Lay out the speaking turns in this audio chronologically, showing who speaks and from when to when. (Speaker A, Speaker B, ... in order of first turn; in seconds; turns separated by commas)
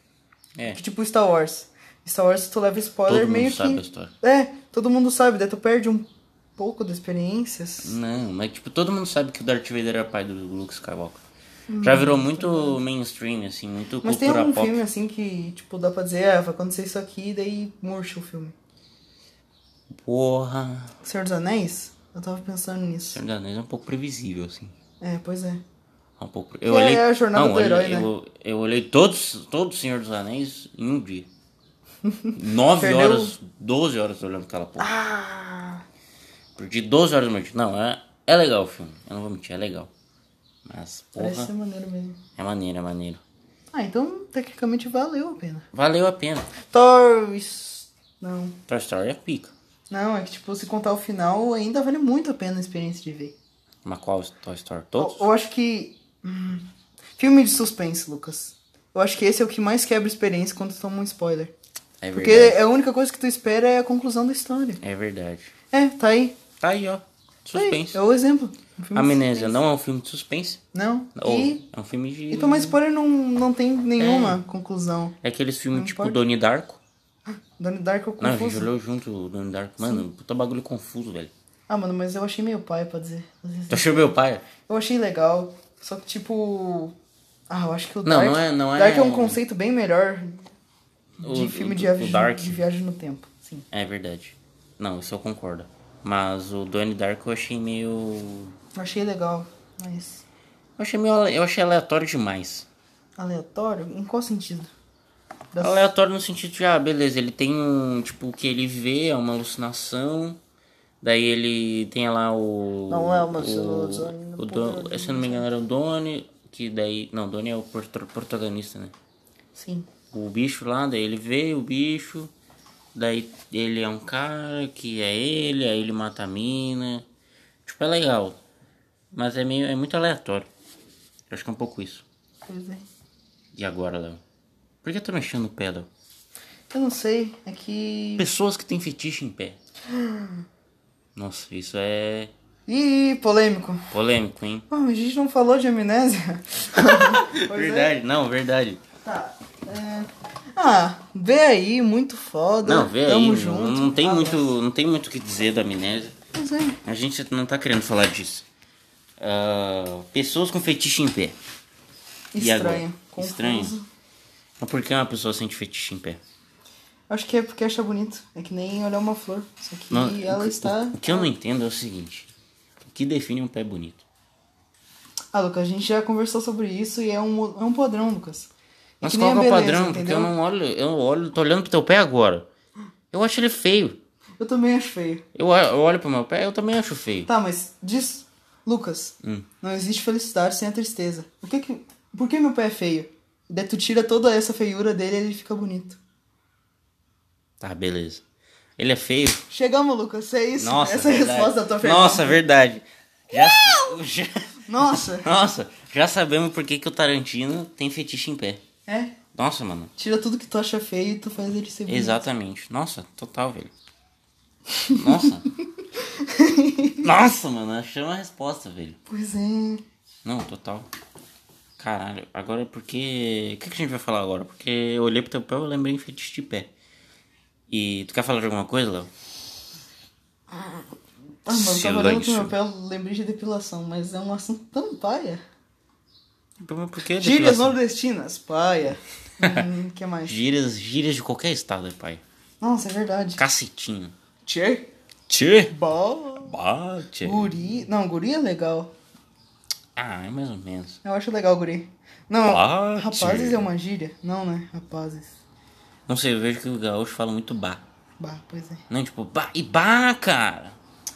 Speaker A: 0.7-8.0, Speaker B: 3.1-4.1, Speaker B: 7.8-11.2, Speaker A: 11.7-12.8, Speaker B: 11.8-14.8, Speaker A: 14.0-18.5, Speaker B: 20.0-20.9, Speaker A: 21.0-23.2, Speaker B: 23.1-24.7, Speaker A: 25.0-25.6, Speaker B: 26.2-31.3, Speaker A: 26.7-28.1, Speaker A: 32.0-33.3, Speaker B: 32.3-34.9, Speaker A: 34.8-35.8, Speaker B: 36.6-39.9, Speaker B: 40.6-41.5, Speaker A: 41.2-42.2, Speaker B: 42.4-43.2, Speaker A: 43.7-45.6, Speaker B: 45.7-46.5, Speaker A: 46.7-48.6, Speaker B: 48.7-49.5, Speaker A: 49.9-53.3, Speaker B: 53.8-55.2, Speaker A: 55.0-56.6, Speaker A: 57.2-61.5, Speaker B: 62.0-62.6, Speaker A: 62.1-64.8, Speaker B: 64.8-65.5, Speaker A: 65.7-66.4, Speaker B: 66.6-68.0, Speaker A: 67.5-69.6, Speaker B: 68.9-70.6, Speaker A: 70.7-71.6, Speaker B: 71.1-72.8, Speaker A: 72.3-75.2, Speaker B: 74.0-74.4, Speaker B: 75.2-76.8, Speaker A: 75.7-76.2, Speaker A: 77.3-78.7, Speaker B: 78.2-81.3, Speaker A: 81.7-86.9, Speaker B: 83.7-84.5, Speaker A: 87.5-90.4, Speaker B: 88.0-89.4, Speaker B: 91.2-92.6, Speaker A: 91.2-93.7, Speaker B: 93.7-98.5, Speaker A: 98.7-100.2, Speaker B: 100.8-102.7, Speaker A: 103.2-104.7, Speaker A: 105.5-105.8, Speaker B: 105.6-110.4, Speaker B: 111.0-118.9, Speaker A: 112.9-115.4, Speaker A: 119.5-119.9, Speaker B: 120.1-122.3, Speaker B: 122.9-127.0, Speaker B: 127.6-128.4, Speaker B: 129.1-130.5, Speaker B: 131.3-132.0, Speaker A: 132.5-132.8, Speaker B: 133.5-134.2, Speaker B: 134.8-135.9, Speaker A: 136.7-138.2, Speaker B: 138.2-139.6, Speaker A: 139.8-140.4, Speaker B: 141.1-142.3, Speaker A: 142.7-143.9, Speaker B: 143.9-144.7, Speaker A: 144.7-147.9, Speaker B: 146.8-148.8, Speaker A: 149.0-154.5, Speaker B: 152.6-156.1, Speaker A: 156.3-156.8, Speaker B: 156.8-158.4, Speaker B: 159.2-161.3, Speaker A: 162.3-163.8, Speaker B: 162.4-163.8, Speaker B: 164.6-166.2, Speaker A: 167.1-171.3, Speaker B: 169.9-172.3, Speaker B: 172.8-174.0, Speaker A: 175.3-178.5, Speaker A: 179.0-180.3, Speaker B: 179.0-182.5, Speaker B: 183.1-184.0, Speaker A: 184.4-185.2, Speaker B: 185.3-187.3, Speaker A: 187.3-196.0, Speaker B: 197.6-198.2, Speaker B: 198.8-199.5, Speaker A: 199.5-202.4, Speaker B: 200.6-208.6, Speaker A: 203.3-204.0, Speaker A: 204.7-205.3, Speaker A: 208.9-209.2, Speaker B: 209.3-209.9, Speaker A: 210.0-212.2, Speaker B: 211.9-213.7, Speaker A: 214.7-215.3, Speaker B: 214.9-215.5, Speaker A: 216.0-217.1, Speaker B: 217.0-219.0, Speaker A: 219.1-219.8, Speaker B: 220.2-220.9, Speaker B: 221.8-226.7, Speaker B: 227.7-229.1, Speaker A: 230.5-230.8, Speaker A: 231.4-235.4, Speaker B: 231.5-232.5, Speaker B: 236.6-237.8, Speaker A: 237.2-240.4, Speaker B: 239.4-239.7, Speaker B: 240.2-242.2, Speaker A: 242.6-243.4, Speaker B: 243.4-244.1, Speaker A: 244.4-244.9, Speaker B: 245.3-245.7, Speaker A: 245.7-246.5, Speaker B: 246.4-247.5, Speaker A: 247.2-248.9, Speaker B: 249.9-251.0, Speaker A: 251.0-255.3, Speaker B: 252.5-253.7, Speaker B: 256.1-257.8, Speaker A: 258.2-258.8, Speaker B: 258.9-260.8